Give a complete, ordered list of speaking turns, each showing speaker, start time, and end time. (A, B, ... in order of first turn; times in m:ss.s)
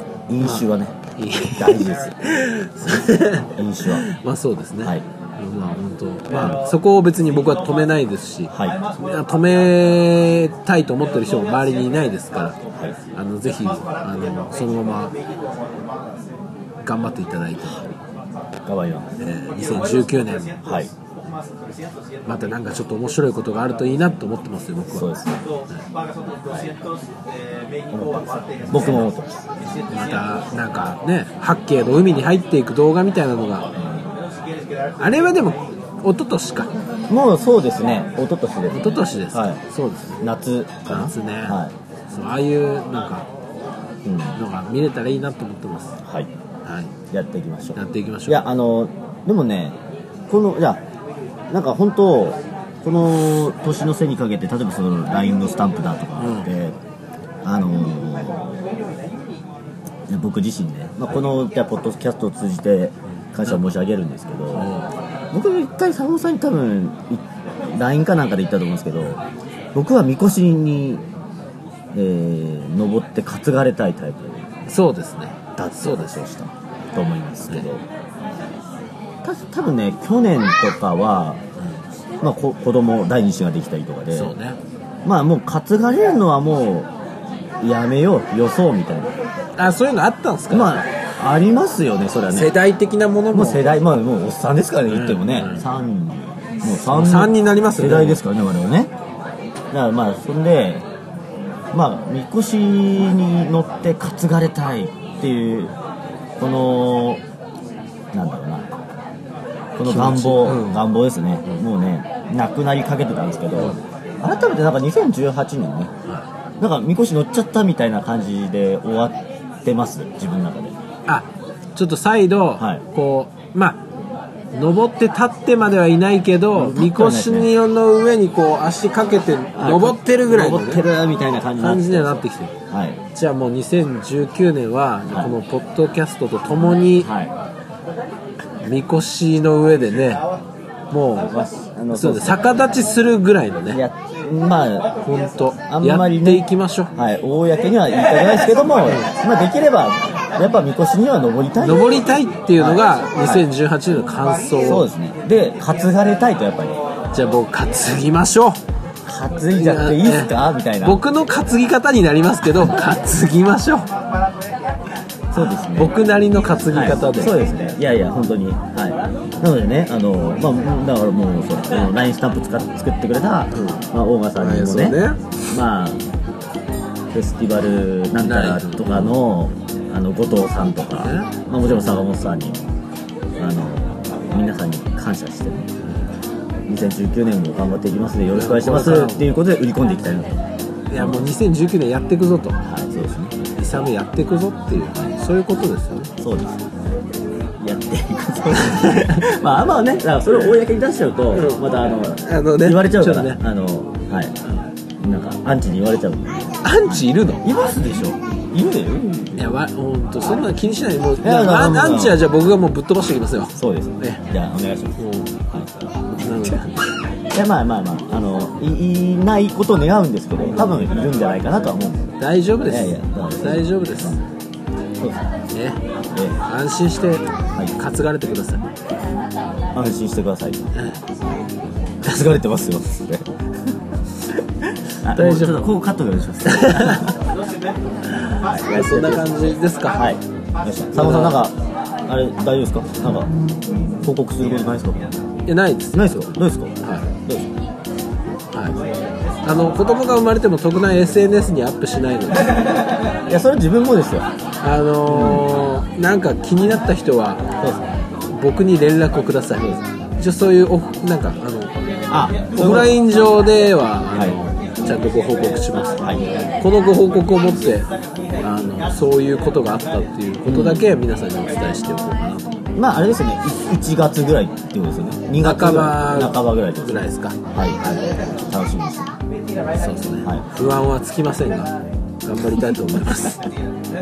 0:00.3-0:01.0 A
0:01.2-0:12.6 B
0:01.5-0:02.2 A
0:02.9-0:04.1 A
0:08.5-0:08.8 A
0:13.1-0:15.1 B
0:16.8-0:17.9 B
0:18.6-0:19.1 A
0:19.2-0:20.7 B
0:20.6-0:20.9 A
0:22.2-0:25.1 B
0:24.9-0:25.4 A
0:26.5-0:26.8 A
0:27.9-0:29.4 A
0:28.7-0:29.0 B
0:29.9-0:33.7 B
0:33.8-0:34.1 A
0:35.0-0:36.7 B
0:37.1-0:39.6 A
0:38.7-0:40.2 B
0:40.2-0:41.7 A
0:40.9-0:41.6 B
0:42.1-0:43.3 B
0:44.0-0:44.4 A
0:44.4-0:46.0 B
0:46.0-0:46.3 A
0:46.6-0:46.9 B
0:47.1-0:49.8 A
0:47.8-0:48.5 B
0:50.3-0:50.8 A
0:51.5-0:56.8 A
0:56.2-0:56.5 B
0:57.4-0:58.6 A
1:00.1-1:04.7 A
1:04.5-1:05.0 B
1:05.3-1:09.2 A
1:09.7-1:11.0 A
1:11.9-1:14.5 A
1:14.7-1:16.2 B
1:15.6-1:17.8 A
1:19.2-1:21.4 A
1:22.2-1:24.4 A
1:24.1-1:24.6 B
1:25.0-1:26.9 A
1:27.6-1:29.1 A
1:29.6-1:30.8 B
1:30.5-1:32.5 A
1:32.3-1:33.7 B
1:33.3-1:38.9 A
1:34.9-1:35.6 B
1:36.7-1:38.2 B
1:39.7-1:40.9 A
1:41.7-1:45.7 A
1:46.4-1:47.2 A
1:48.1-1:48.7 A
1:49.8-1:55.9 A
1:49.8-1:50.8 B
1:56.6-2:00.8 A
2:01.1-2:03.8 B
2:02.6-2:02.8 A
2:04.5-2:10.8 B
2:06.5-2:07.5 A
2:09.6-2:13.0 A
2:11.6-2:12.5 B
2:13.1-2:17.1 B
2:17.0-2:17.3 A
2:18.6-2:20.2 B
2:20.9-2:21.3 B
2:21.3-2:22.6 A
2:21.9-2:23.8 B
2:23.7-2:24.9 A
2:25.0-2:26.9 B
2:25.7-2:33.4 A
2:28.9-2:29.1 B
2:31.6-2:34.9 B
2:34.6-2:36.8 A
2:37.1-2:38.6 B
2:39.1-2:41.1 A
2:39.6-2:43.9 B
2:45.3-2:46.0 A
2:45.4-2:47.4 B
2:46.7-2:56.0 A
2:53.5-2:55.3 B
2:57.1-3:02.7 A
2:58.2-2:59.2 B
3:01.0-3:02.0 B
3:03.4-3:05.7 A
3:06.7-3:10.4 A
3:08.3-3:09.3 B
3:10.9-3:12.6 B
3:11.0-3:11.3 A
3:12.6-3:13.4 A
3:13.6-3:16.1 B
3:16.2-3:16.6 A
3:17.6-3:26.7 A
3:18.6-3:19.2 B
3:21.3-3:23.4 B
3:26.6-3:27.4 B
3:27.4-3:29.4 A
3:29.3-3:34.2 B
3:31.2-3:32.2 A
3:33.6-3:35.0 A
3:35.0-3:35.3 B
3:35.5-3:35.7 A
3:36.1-3:36.9 B
3:36.3-3:36.7 A
3:37.3-3:42.1 A
3:42.2-3:44.2 B
3:42.7-3:44.2 A
3:45.0-3:45.2 A
3:45.5-3:45.8 B
3:46.1-3:46.4 A
3:46.4-3:48.6 B
3:49.7-3:50.9 A
3:52.0-3:53.8 A
3:54.3-3:57.2 A
3:55.1-3:55.6 B
3:56.5-3:57.1 B
3:58.2-3:59.4 A
3:58.7-4:00.0 B
3:59.9-4:03.3 A
4:00.9-4:01.4 B
4:04.0-4:05.2 A
4:05.5-4:07.1 B
4:05.9-4:07.5 A
4:09.4-4:12.9 B
4:13.3-4:14.3 A
4:14.6-4:17.5 B
4:15.1-4:15.5 A
4:18.3-4:21.7 B
4:22.1-4:23.4 A
4:22.5-4:32.6 B
4:30.5-4:31.0 A
4:32.8-4:39.2 A
4:35.4-4:37.4 B
4:39.7-4:43.4 B